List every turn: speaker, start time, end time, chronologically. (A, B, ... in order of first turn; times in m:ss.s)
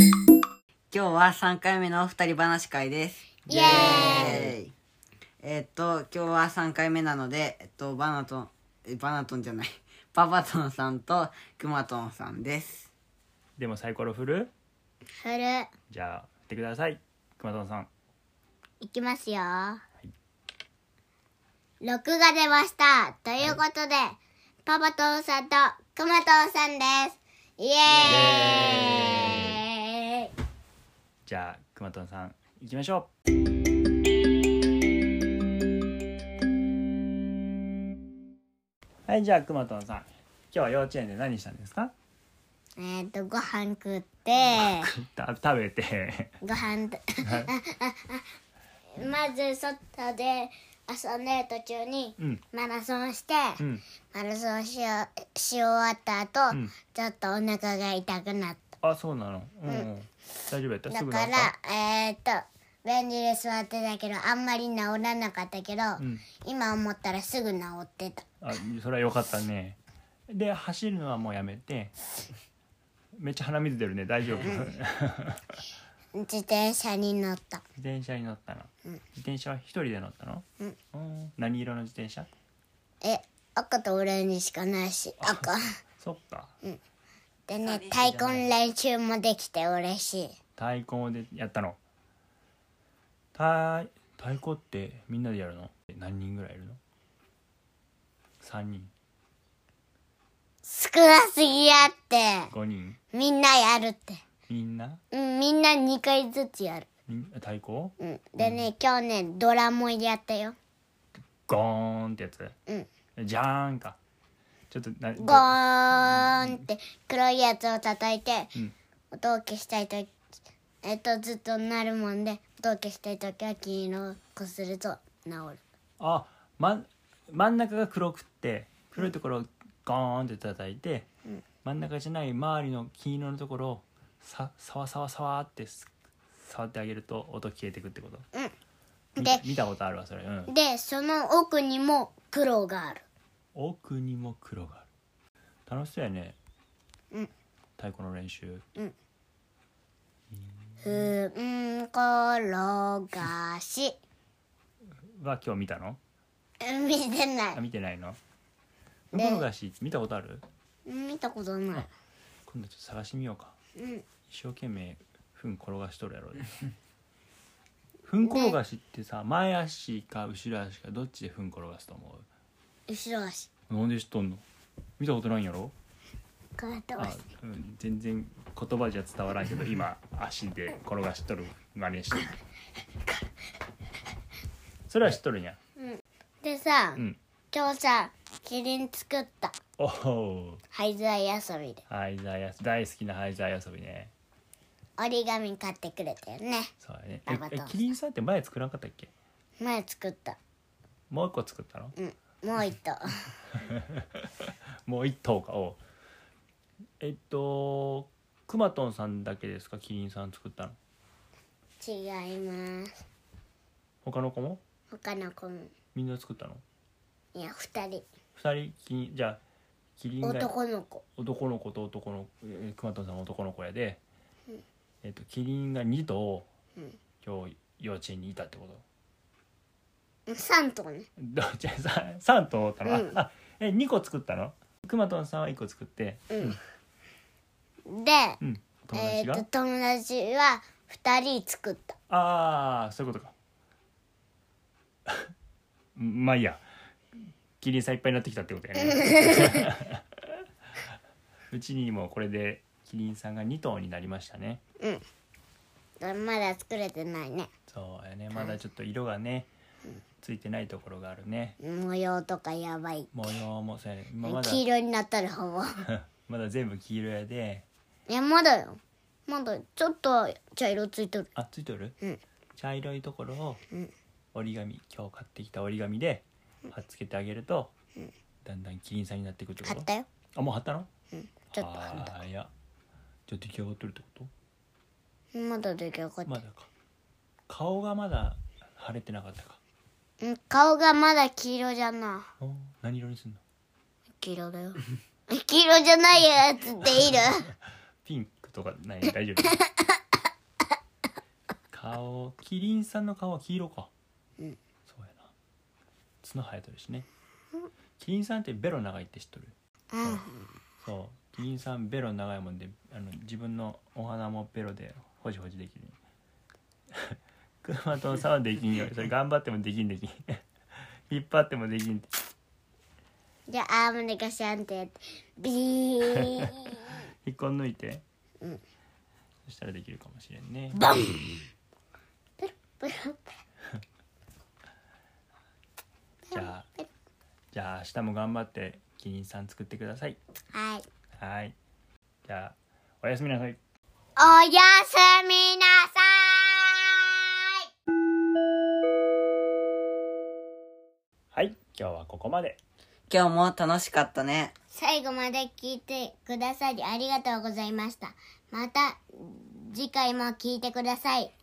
0:00.9-0:04.7 A
0:03.5-0:04.5 B
0:03.5-0:04.5 C
0:05.4-0:12.9 A
0:13.6-0:14.5 C
0:15.2-0:15.7 B
0:15.9-0:17.9 C
0:18.8-0:19.8 B
0:21.8-0:30.3 B
0:28.0-0:29.1 A
0:28.0-0:29.6 C
0:31.3-0:33.1 C
0:39.1-0:41.9 C
0:42.8-0:44.9 B
0:44.4-0:46.4 C
0:46.4-0:48.3 B
0:47.2-0:47.5 C
0:49.0-0:58.7 B
0:52.2-0:52.4 C
0:53.6-0:53.8 C
0:58.8-1:01.5 C
1:00.9-1:08.3 B
1:06.0-1:06.3 C
1:08.4-1:09.8 C
1:10.3-1:11.9 C
1:13.2-1:15.6 C
1:14.4-1:14.7 B
1:16.1-1:17.6 B
1:17.8-1:22.3 C
1:23.0-1:25.7 B
1:25.2-1:26.6 C
1:27.5-1:30.4 B
1:27.6-1:28.5 A
1:30.6-1:31.8 C
1:33.4-1:36.8 C
1:38.4-1:38.9 C
1:40.6-1:42.5 B
1:42.5-1:43.0 C
1:43.1-1:44.2 B
1:44.5-1:45.0 C
1:45.1-1:46.9 B
1:47.1-1:48.7 C
1:48.0-1:50.6 B
1:51.5-1:52.6 C
1:53.2-1:54.0 C
1:54.7-1:56.6 C
1:55.2-1:58.5 B
1:59.1-2:00.1 B
2:00.8-2:05.6 B
2:06.0-2:11.1 C
2:11.6-2:18.2 C
2:19.2-2:19.4 B
2:19.2-2:20.5 C
2:20.5-2:23.0 B
2:23.5-2:24.9 C
2:25.7-2:26.4 C
2:27.8-2:28.6 C
2:30.8-2:31.1 C
2:30.8-2:34.0 B
2:35.1-2:36.0 C
2:36.6-2:37.6 B
2:37.6-2:38.2 C
2:39.1-2:40.4 C
2:39.1-2:39.4 B
2:40.9-2:41.9 B
2:42.5-2:43.6 C
2:43.8-2:44.0 B
2:44.3-2:46.6 C
2:48.1-2:52.3 C
2:48.2-2:48.6 B
2:52.9-2:53.5 B
2:53.7-2:54.4 C
2:55.0-2:55.7 C
2:56.6-2:57.2 B
2:57.0-3:02.3 C
3:04.9-3:05.6 C
3:05.8-3:09.6 B
3:09.8-3:10.6 C
3:10.7-3:11.8 B
3:11.9-3:14.1 C
3:15.0-3:16.7 B
3:16.8-3:19.1 C
3:17.3-3:17.8 B
3:19.6-3:20.4 B
3:21.1-3:21.9 C
3:22.0-3:23.2 B
3:23.6-3:25.8 C
3:27.0-3:30.8 C
3:31.8-3:32.9 B
3:34.0-3:34.6 C
3:34.9-3:35.7 B
3:35.9-3:36.6 C
3:37.4-3:38.1 B
3:38.4-3:39.4 C
3:40.0-3:40.5 C
3:40.2-3:41.0 B
3:41.2-3:44.0 C
3:45.0-3:46.5 C
3:47.2-3:48.8 C
3:50.3-3:51.1 B
3:51.2-3:56.6 C
3:52.8-3:53.2 B
3:56.3-3:56.6 B
3:57.9-3:58.4 B
3:58.4-3:59.5 C
3:58.9-4:02.0 B
4:02.1-4:03.3 C
4:06.0-4:06.6 C
4:07.6-4:10.4 C
4:08.8-4:09.7 B
4:11.5-4:14.6 C
4:16.0-4:17.5 B
4:17.7-4:19.5 C
4:20.2-4:21.6 C
4:21.6-4:23.1 B
4:23.1-4:24.6 C
4:24.2-4:25.8 B
4:25.8-4:27.7 C
4:28.1-4:31.3 B
4:31.4-4:32.0 C
4:32.6-4:33.6 C
4:34.3-4:37.7 C
4:38.4-4:40.9 C
4:39.6-4:40.1 B
4:41.1-4:42.2 B
4:41.5-4:42.5 C
4:43.3-4:44.3 C
4:45.3-4:46.4 B
4:46.3-4:46.7 C
4:47.5-4:49.6 C
4:50.2-4:52.3 B
4:52.4-4:53.4 C
4:54.2-4:57.5 B
4:56.8-4:57.3 C
4:58.0-4:59.6 C
4:59.5-4:59.8 B
5:01.7-5:03.9 C
5:04.9-5:05.3 C
5:06.2-5:07.1 C
5:08.0-5:10.2 C
5:09.9-5:10.5 B
5:10.8-5:16.0 C
5:16.9-5:20.4 C
5:21.1-5:22.1 C
5:23.5-5:26.9 B
5:26.1-5:26.5 C
5:27.2-5:28.0 C
5:29.5-5:30.9 C
5:30.8-5:31.2 B
5:32.4-5:33.2 B
5:36.3-5:36.9 B
5:36.3-5:36.7 C
5:37.5-5:40.2 C
5:40.5-5:40.9 B
5:41.2-5:41.6 C
5:42.3-5:43.6 C
5:44.2-5:47.6 B
5:51.3-5:52.6 C
5:53.1-5:54.5 A
5:54.7-6:01.3 B